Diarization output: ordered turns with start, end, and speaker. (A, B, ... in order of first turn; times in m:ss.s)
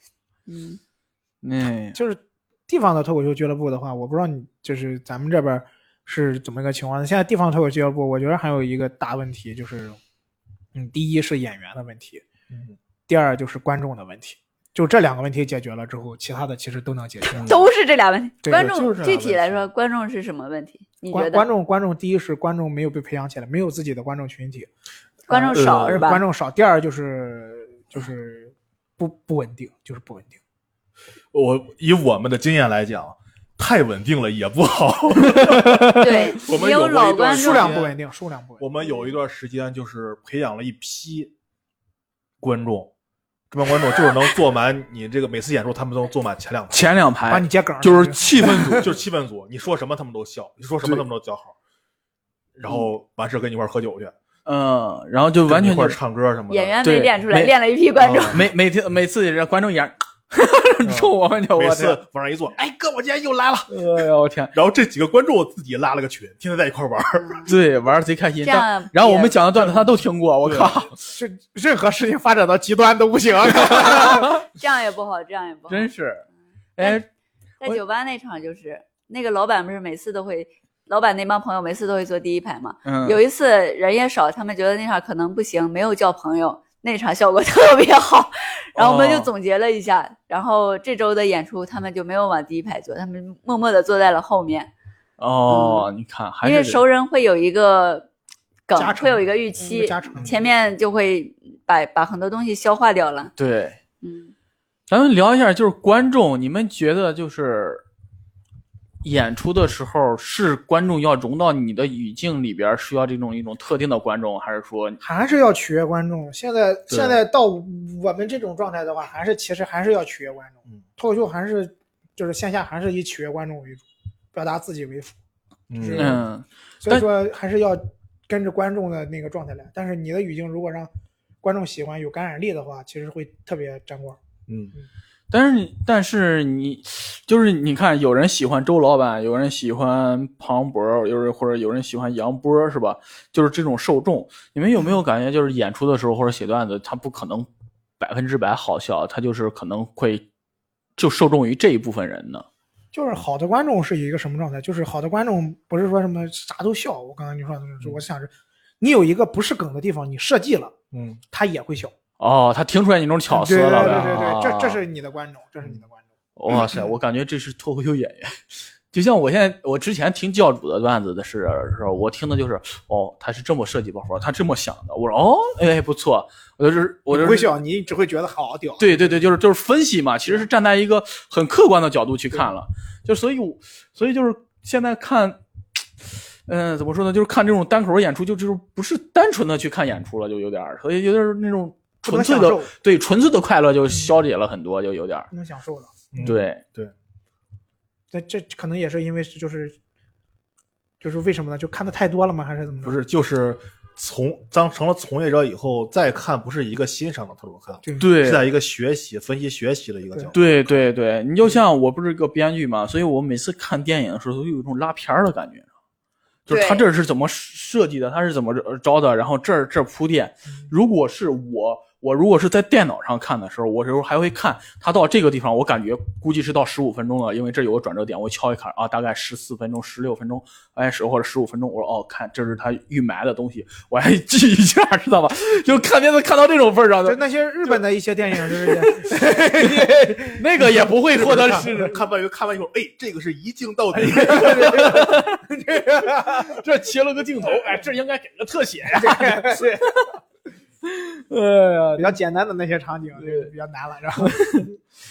0:00.5-0:00.8 A
0:01.4-0:02.0 B
0:02.0-0:10.0 C
0:10.8-0:12.2 C
0:12.5-0:12.8 D
0:13.1-0:17.5 C
0:17.3-0:17.6 D
0:17.3-0:21.5 A
0:18.4-0:18.7 C
0:18.5-0:19.7 D
0:21.1-0:24.7 C
0:25.3-0:26.2 A
0:25.3-0:30.4 C
0:25.6-0:26.0 D
0:31.3-0:37.9 D
0:36.0-0:37.8 A
0:37.3-0:38.6 C
0:38.6-0:41.3 D
0:38.8-0:39.1 A
0:42.4-0:42.9 D
0:43.5-0:46.9 D
0:46.7-0:48.9 B
0:47.3-0:48.8 C
0:48.4-0:51.6 D
0:52.6-0:54.1 D
0:54.5-0:56.0 B
0:55.5-0:56.8 D
0:56.5-0:58.4 A
0:56.8-0:57.5 B
0:58.0-0:58.5 D
0:58.3-1:02.0 B
1:00.8-1:04.0 D
1:03.7-1:04.5 B
1:04.5-1:07.5 D
1:07.2-1:07.5 A
1:07.5-1:11.1 B
1:08.4-1:09.4 A
1:10.5-1:10.8 D
1:11.1-1:14.3 C
1:13.7-1:15.9 A
1:15.7-1:16.2 B
1:16.8-1:17.0 B
1:17.6-1:34.7 A
1:22.8-1:23.2 B
1:28.8-1:29.3 B
1:35.2-1:36.8 B
1:35.5-1:35.9 A
1:36.4-1:38.1 A
1:38.7-1:43.3 A
1:38.8-1:40.5 C
1:43.4-1:43.8 B
1:44.0-1:44.3 A
1:44.9-1:47.8 B
1:49.0-1:55.0 B
1:55.0-2:05.2 C
1:56.9-1:57.2 D
2:05.7-2:06.2 D
2:05.8-2:06.2 C
2:06.0-2:07.1 B
2:06.8-2:10.9 C
2:11.4-2:14.2 C
2:14.5-2:14.8 D
2:15.3-2:27.5 B
2:28.0-2:30.2 B
2:31.0-2:32.5 B
2:32.9-2:40.7 C
2:40.9-2:41.2 D
2:41.3-2:41.9 C
2:42.2-2:44.8 B
2:43.3-2:46.0 C
2:46.4-2:57.5 B
2:57.1-2:59.2 C
2:58.8-3:05.4 B
3:06.0-3:15.3 B
3:12.0-3:12.7 C
3:15.3-3:16.0 C
3:16.1-3:16.9 D
3:16.2-3:16.6 B
3:18.1-3:19.8 C
3:21.0-3:23.0 C
3:22.8-3:30.8 D
3:28.0-3:28.5 B
3:30.3-3:35.7 B
3:36.5-3:57.8 B
3:36.5-3:36.8 A
3:57.1-4:01.9 C
3:58.4-4:02.0 B
4:01.4-4:04.9 D
4:04.0-4:06.6 C
4:04.1-4:05.4 B
4:06.2-4:10.2 B
4:08.9-4:10.0 C
4:10.8-4:12.1 B
4:12.0-4:14.7 C
4:13.2-4:13.5 B
4:14.2-4:14.7 B